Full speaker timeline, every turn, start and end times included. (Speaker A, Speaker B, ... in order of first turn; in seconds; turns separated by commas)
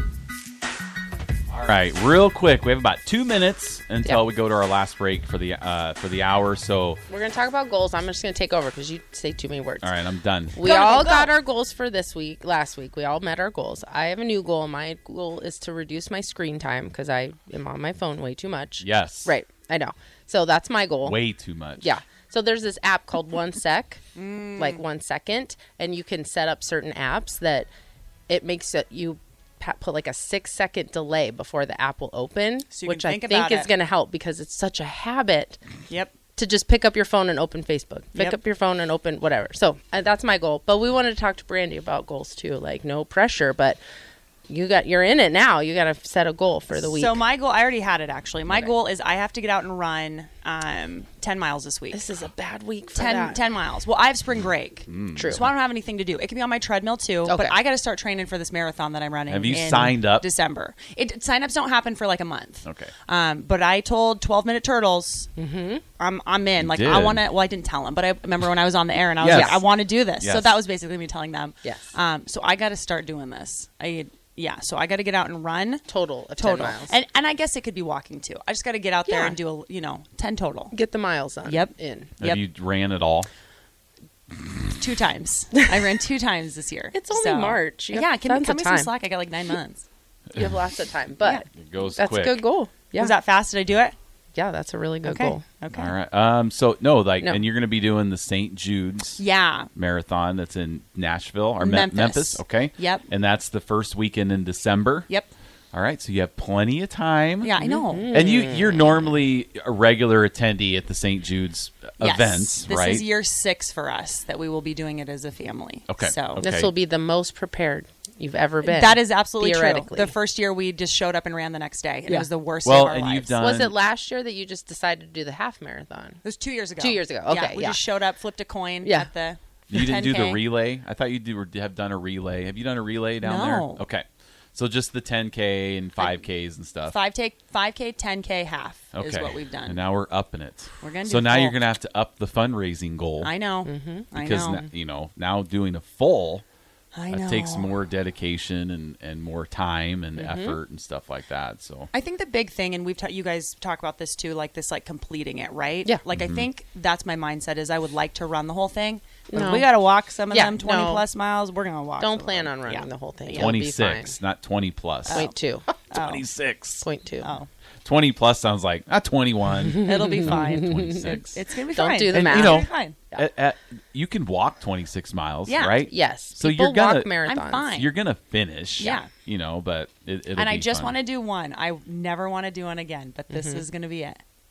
Speaker A: 1.5-7.0, Speaker B: 7.1-9.9, Speaker A: 9.8-10.7, Speaker B: 10.5-21.2, Speaker C: 10.6-11.3, Speaker A: 18.8-19.3, Speaker A: 21.0-21.9, Speaker B: 21.8-24.0, Speaker C: 24.1-24.8, Speaker B: 24.6-27.7, Speaker B: 28.3-35.6, Speaker C: 32.7-33.7, Speaker C: 35.9-36.1, Speaker B: 36.4-43.8, Speaker B: 44.5-47.2, Speaker C: 46.7-52.0, Speaker B: 51.9-53.4, Speaker C: 52.9-65.3, Speaker A: 54.9-55.5, Speaker B: 55.1-55.4, Speaker B: 57.2-57.5, Speaker A: 59.3-60.2, Speaker A: 62.6-62.9, Speaker B: 65.3-65.8, Speaker C: 66.0-75.8, Speaker A: 66.6-67.2, Speaker A: 69.2-69.6, Speaker B: 69.2-69.6, Speaker A: 70.2-70.6, Speaker B: 71.6-71.9, Speaker B: 75.9-77.0, Speaker C: 76.4-80.8, Speaker B: 79.0-79.4, Speaker B: 80.7-82.2, Speaker C: 81.4-82.4, Speaker A: 82.2-83.3, Speaker C: 84.7-89.8, Speaker B: 86.9-88.9, Speaker B: 90.3-93.2, Speaker A: 91.5-92.4, Speaker C: 92.9-94.0, Speaker B: 94.3-95.6, Speaker C: 95.0-95.9, Speaker A: 95.7-99.2, Speaker C: 99.2-99.7, Speaker A: 99.7-105.1, Speaker C: 101.6-103.1, Speaker A: 105.7-107.5, Speaker C: 107.4-108.1, Speaker B: 107.6-109.1, Speaker A: 108.1-113.0, Speaker C: 112.0-116.5, Speaker A: 115.9-116.7, Speaker B: 116.4-120.1, Speaker C: 118.6-123.4, Speaker A: 122.6-123.7, Speaker B: 123.4-126.2, Speaker C: 126.2-130.4, Speaker B: 126.8-127.8, Speaker B: 128.8-129.1, Speaker A: 129.7-137.0, Speaker C: 133.2-133.8, Speaker C: 136.9-139.8, Speaker A: 138.9-143.3, Speaker C: 140.8-141.6, Speaker C: 143.2-144.6, Speaker B: 143.6-144.7, Speaker A: 144.1-146.4, Speaker C: 146.9-147.7, Speaker A: 147.1-151.9, Speaker B: 150.2-150.6, Speaker C: 151.9-163.5, Speaker A: 156.1-156.5, Speaker B: 159.3-159.7, Speaker B: 160.3-161.1, Speaker B: 162.0-164.1, Speaker A: 163.3-165.3, Speaker C: 165.1-165.3, Speaker B: 165.1-165.7, Speaker A: 165.9-166.9, Speaker C: 165.9-166.2, Speaker B: 166.8-167.3, Speaker C: 167.2-167.5, Speaker A: 167.8-171.4, Speaker B: 169.6-171.2, Speaker C: 169.8-173.0, Speaker B: 171.7-173.2, Speaker A: 172.1-177.2, Speaker C: 175.5-175.9, Speaker B: 175.9-177.7, Speaker C: 177.2-177.9, Speaker A: 177.7-181.0, Speaker C: 178.8-179.1, Speaker C: 180.3-184.2, Speaker B: 183.3-183.6